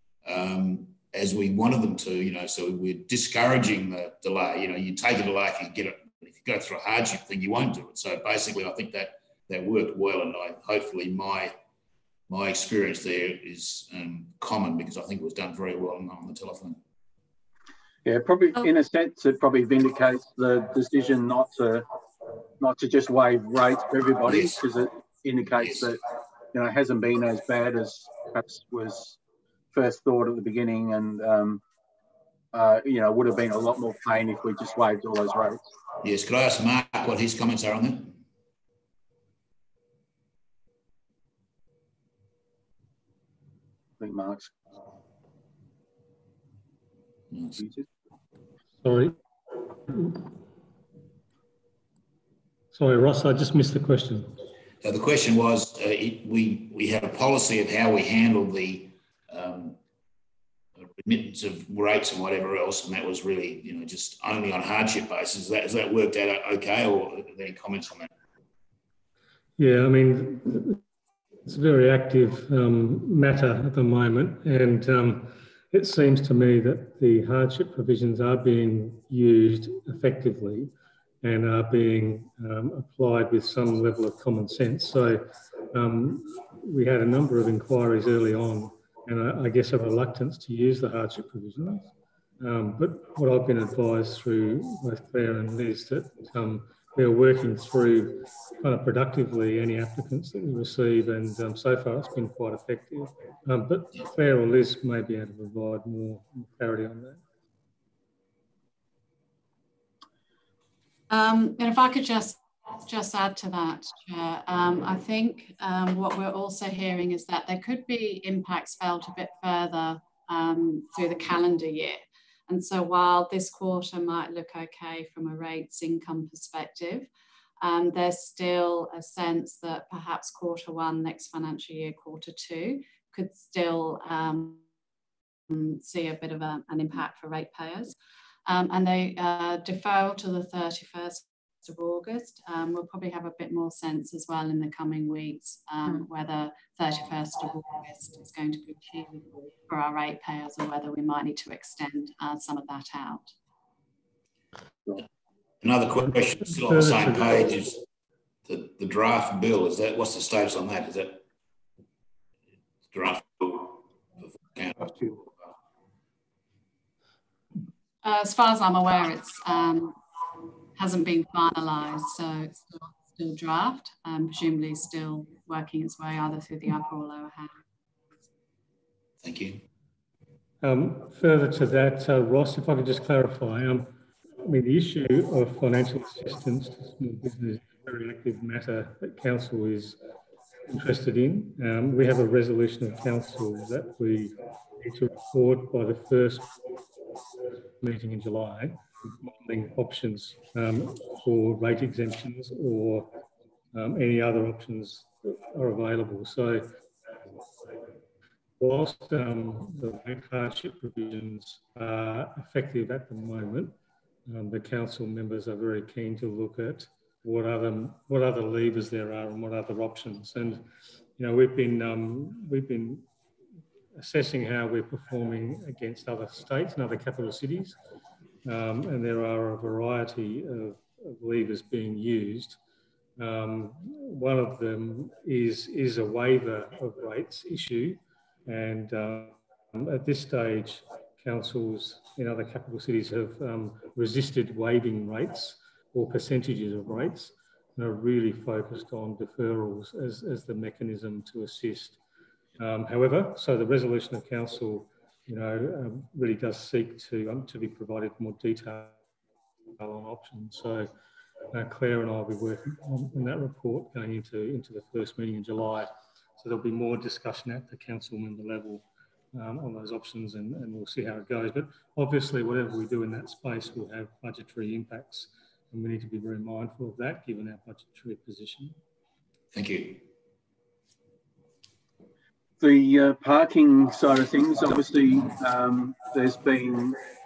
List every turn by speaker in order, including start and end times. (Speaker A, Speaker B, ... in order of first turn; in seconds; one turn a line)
Speaker A: 0.2-11.6
Speaker A: 12.3-16.8
Speaker B: 18.0-21.9
Speaker B: 22.6-26.0
Speaker A: 24.2-24.6
Speaker A: 25.6-25.9
Speaker B: 26.5-29.2
Speaker B: 29.7-31.6
Speaker B: 32.5-35.6
Speaker A: 36.0-38.2
Speaker B: 44.0-44.5
Speaker A: 47.3-47.6
Speaker B: 47.6-47.9
Speaker C: 48.8-49.1
Speaker C: 49.9-50.3
Speaker C: 52.7-54.3
Speaker A: 54.8-59.8
Speaker A: 60.8-68.1
Speaker C: 69.6-70.8
Speaker C: 71.5-107.2
Speaker D: 111.1-127.1
Speaker D: 127.6-134.6
Speaker D: 135.5-137.9
Speaker D: 138.4-153.3
Speaker A: 155.6-157.8
Speaker C: 156.4-157.7
Speaker A: 158.4-161.2
Speaker A: 162.9-163.8
Speaker A: 164.5-165.1
Speaker D: 168.0-170.0
Speaker D: 170.7-177.6
Speaker A: 179.2-179.6
Speaker C: 180.6-190.0
Speaker C: 190.7-196.6
Speaker C: 197.8-203.1
Speaker C: 203.7-206.7
Speaker C: 208.6-213.7
Speaker C: 214.3-220.7
Speaker C: 221.2-223.1
Speaker C: 223.9-227.7
Speaker C: 228.4-232.6
Speaker C: 233.2-252.0
Speaker C: 252.6-259.0
Speaker C: 259.8-260.9
Speaker C: 261.5-278.7
Speaker A: 279.5-280.0
Speaker B: 282.6-287.0